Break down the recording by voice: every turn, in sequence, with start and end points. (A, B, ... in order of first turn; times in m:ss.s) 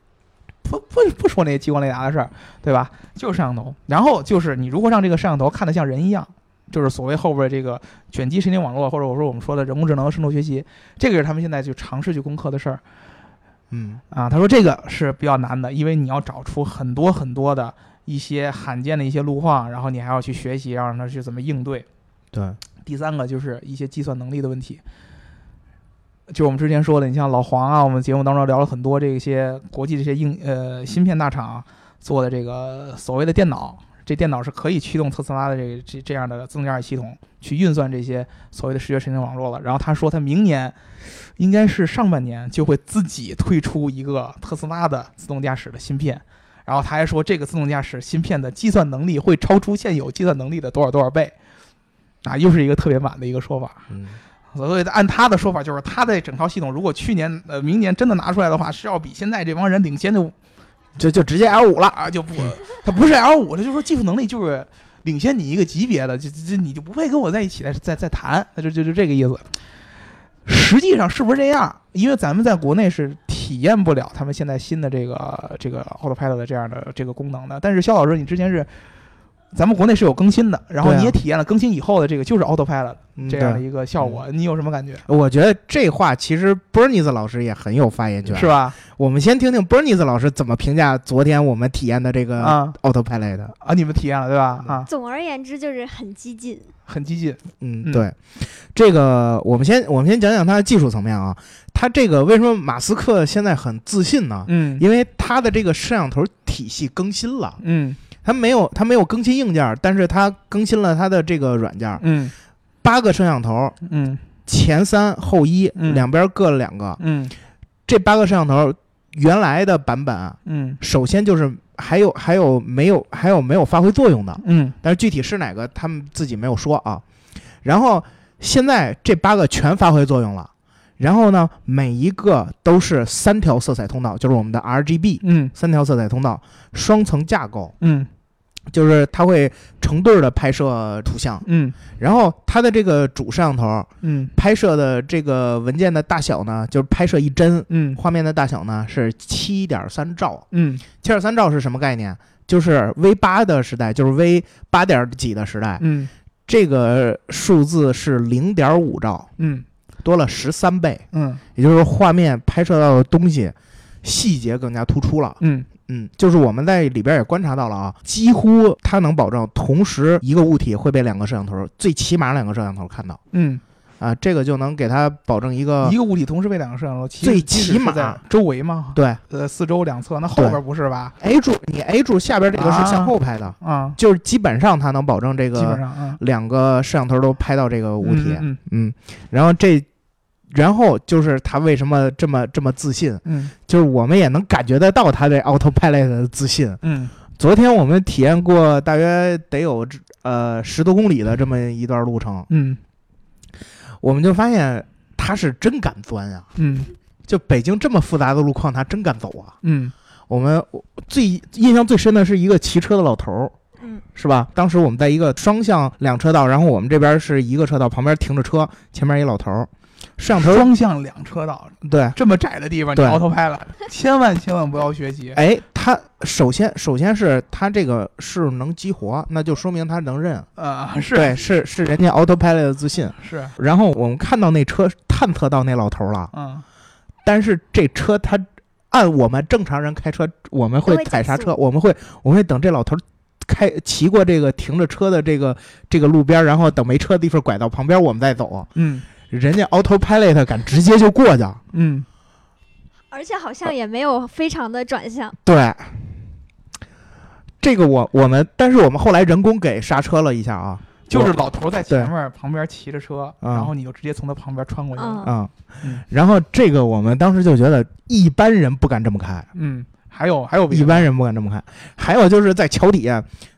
0:00.6-0:12.8 A
0:13.7-0:14.0 B
0:14.1-0:21.9 A
0:22.3-0:22.6 B
0:22.8-0:24.8 A
0:26.3-0:40.8 A
0:41.4-0:51.3 A
0:52.2-0:53.9 A
0:53.9-0:54.2 B
0:54.5-1:00.4 A
1:01.0-1:02.4 B
1:01.9-1:09.5 A
1:10.4-1:18.7 A
1:19.5-1:25.0 A
1:20.8-1:21.2 B
1:23.2-1:24.2 B
1:25.1-1:33.5 B
1:28.3-1:28.8 A
1:32.4-1:32.8 A
1:33.6-1:34.9 A
1:34.9-1:36.7 C
1:36.9-1:38.1 A
1:37.6-1:47.6 B
1:44.5-1:44.8 A
1:47.6-1:48.0 A
1:48.2-1:52.0 B
1:52.0-1:52.3 A
1:52.8-1:53.8 B
1:53.8-1:54.2 A
1:54.5-1:57.0 B
1:55.8-1:56.1 A
1:57.0-1:57.4 A
1:57.9-2:07.0 B
2:00.5-2:00.8 A
2:04.4-2:04.8 A
2:07.6-2:17.8 B
2:15.2-2:15.5 A
2:17.8-2:18.1 A
2:18.7-2:30.5 B
2:21.4-2:21.8 A
2:24.0-2:24.3 A
2:27.7-2:28.0 A
2:30.5-2:30.9 A
2:31.0-2:35.8 B
2:35.8-2:36.1 A
2:36.5-2:39.3 B
2:39.4-2:39.6 A
2:40.0-2:53.2 B
2:41.1-2:41.4 A
2:45.4-2:45.7 A
2:53.3-2:53.6 A
2:54.0-2:56.0 B
2:55.8-3:01.1 A
2:57.2-2:58.2 B
2:59.0-2:59.2 B
3:01.2-3:09.9 B
3:02.5-3:04.0 A
3:05.6-3:06.2 A
3:08.0-3:08.6 A
3:10.5-3:16.8 B
3:13.2-3:13.5 A
3:16.8-3:17.2 A
3:17.4-3:22.5 B
3:22.5-3:22.8 A
3:24.0-3:26.5 B
3:26.6-3:26.9 A
3:27.3-3:29.6 B
3:29.6-3:29.9 A
3:30.3-3:33.6 B
3:34.2-3:40.7 B
3:40.4-3:45.4 A
3:41.8-3:42.2 B
3:43.0-3:43.2 B
3:45.4-3:50.5 B
3:50.6-3:51.4 A
3:51.1-3:56.3 B
3:53.2-3:53.6 A
3:56.3-3:56.6 A
3:57.2-4:08.7 B
4:00.9-4:01.5 C
4:08.8-4:09.1 A
4:09.3-4:11.6 B
4:11.7-4:12.1 A
4:13.1-4:15.4 C
4:15.4-4:16.1 B
4:17.6-4:21.4 B
4:21.1-4:25.3 A
4:23.4-4:23.7 B
4:25.0-4:25.4 C
4:25.2-4:29.5 B
4:29.5-4:31.1 A
4:30.7-4:33.3 B